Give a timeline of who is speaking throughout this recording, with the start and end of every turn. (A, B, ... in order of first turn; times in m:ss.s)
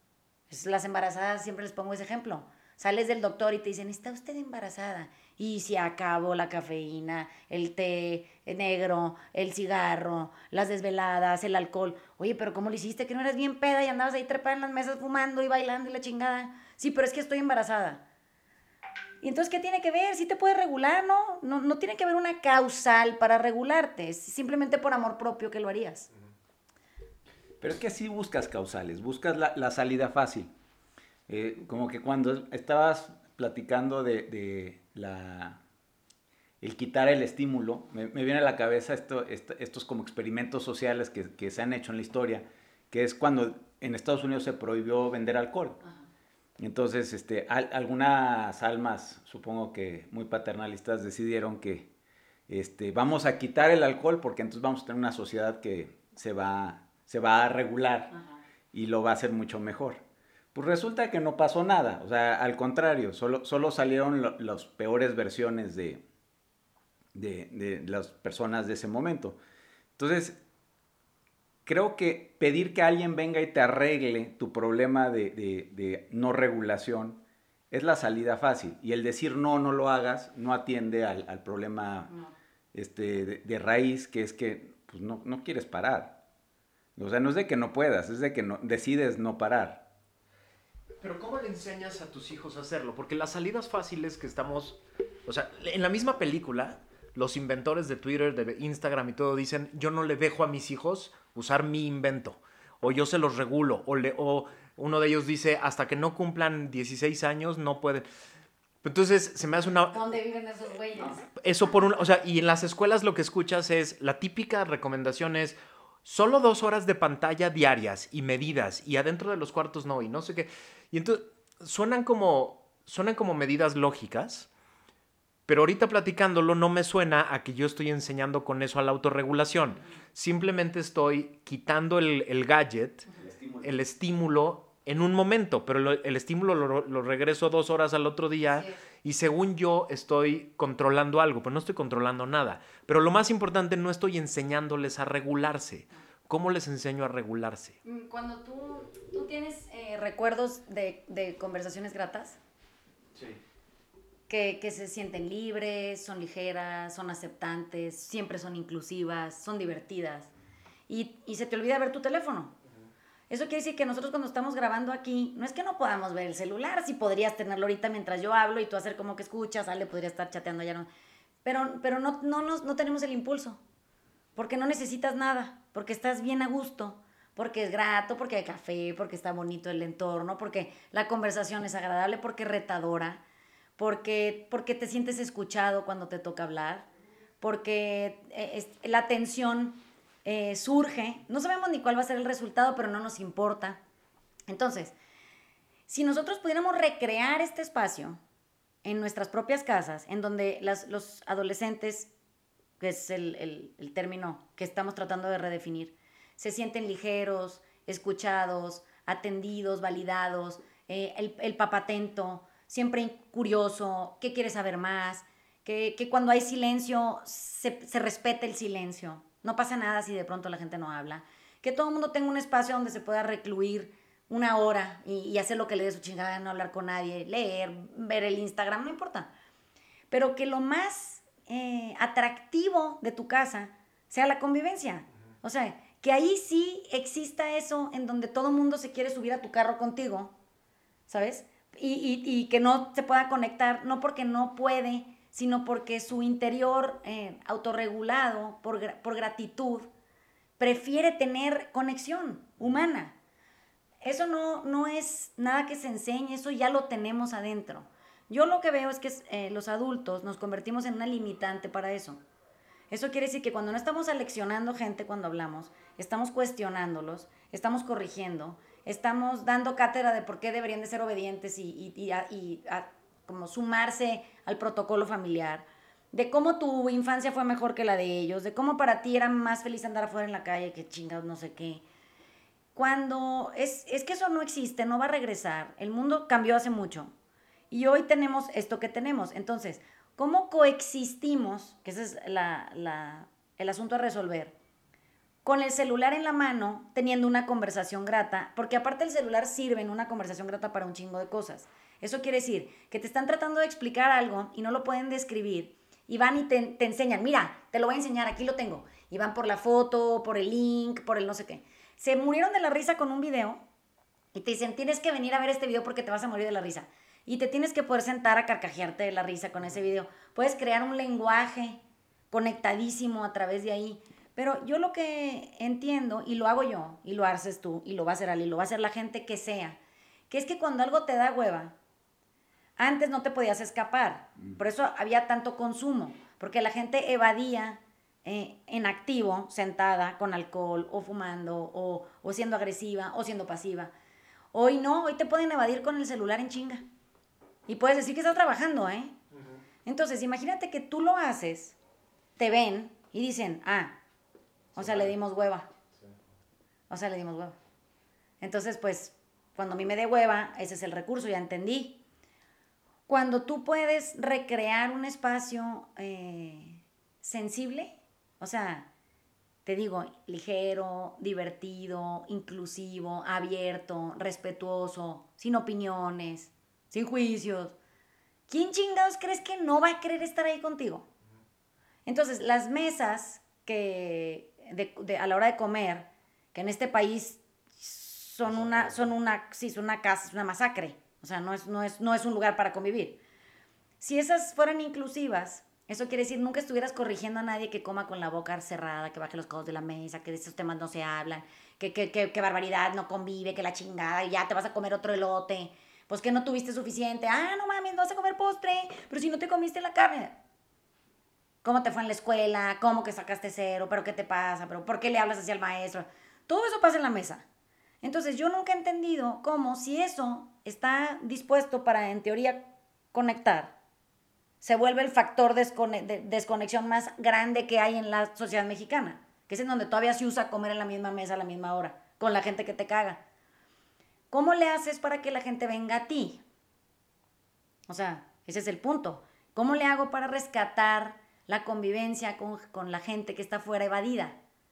0:00.5-0:18.0 A
0:19.2-0:26.1 A
0:27.6-0:30.5 B
0:31.3-0:35.6 B
0:36.6-0:45.8 B
0:46.6-0:51.9 B
0:52.5-0:58.1 B
0:58.1-0:58.4 A
0:58.7-1:00.0 B
1:00.5-1:06.0 B
1:07.1-1:09.4 B
1:10.0-1:10.4 B
1:11.7-1:22.1 B
1:22.7-1:26.2 B
1:27.0-1:29.8 B
1:31.0-1:48.0 C
1:48.8-1:50.0 C
1:49.9-1:51.2 A
1:51.3-2:04.5 C
2:05.5-2:13.1 C
2:13.2-2:13.7 B
2:13.6-2:27.8 C
2:18.5-2:18.8 A
2:27.8-2:32.4 A
2:33.2-2:33.4 C
2:34.3-2:40.3 A
2:40.9-2:42.6 A
2:43.3-2:50.9 A
2:51.4-2:53.6 A
2:54.4-3:03.2 A
3:03.8-3:06.9 A
3:07.4-3:13.8 A
3:14.5-3:15.0 A
3:15.9-3:18.2 A
3:18.8-3:22.1 A
3:22.8-3:49.3 A
3:50.1-4:00.4 A
4:01.1-4:09.9 A
4:10.6-4:13.2 A
4:14.0-4:22.2 A
4:22.9-4:41.8 A
4:42.8-4:47.1 A
4:47.7-4:54.6 A
4:55.4-5:13.6 A
5:14.3-5:21.8 A
5:22.3-5:29.8 A
5:30.3-5:31.8 A
5:32.8-5:43.9 A
5:44.5-5:46.8 A
5:47.7-5:49.1 A
5:49.3-5:49.6 C
5:49.8-5:51.8 A
5:52.4-5:54.0 A
5:54.8-5:55.7 A
5:54.8-5:55.1 C
5:56.9-5:57.6 A
5:58.4-6:02.0 A
6:03.1-6:08.9 A
6:09.6-6:17.8 A
6:18.5-6:21.1 A
6:22.1-6:33.2 A
6:34.0-6:50.4 A
6:51.6-6:57.4 A
6:58.0-7:03.8 A
7:04.6-7:13.2 A
7:14.3-7:16.4 A
7:17.9-7:24.4 A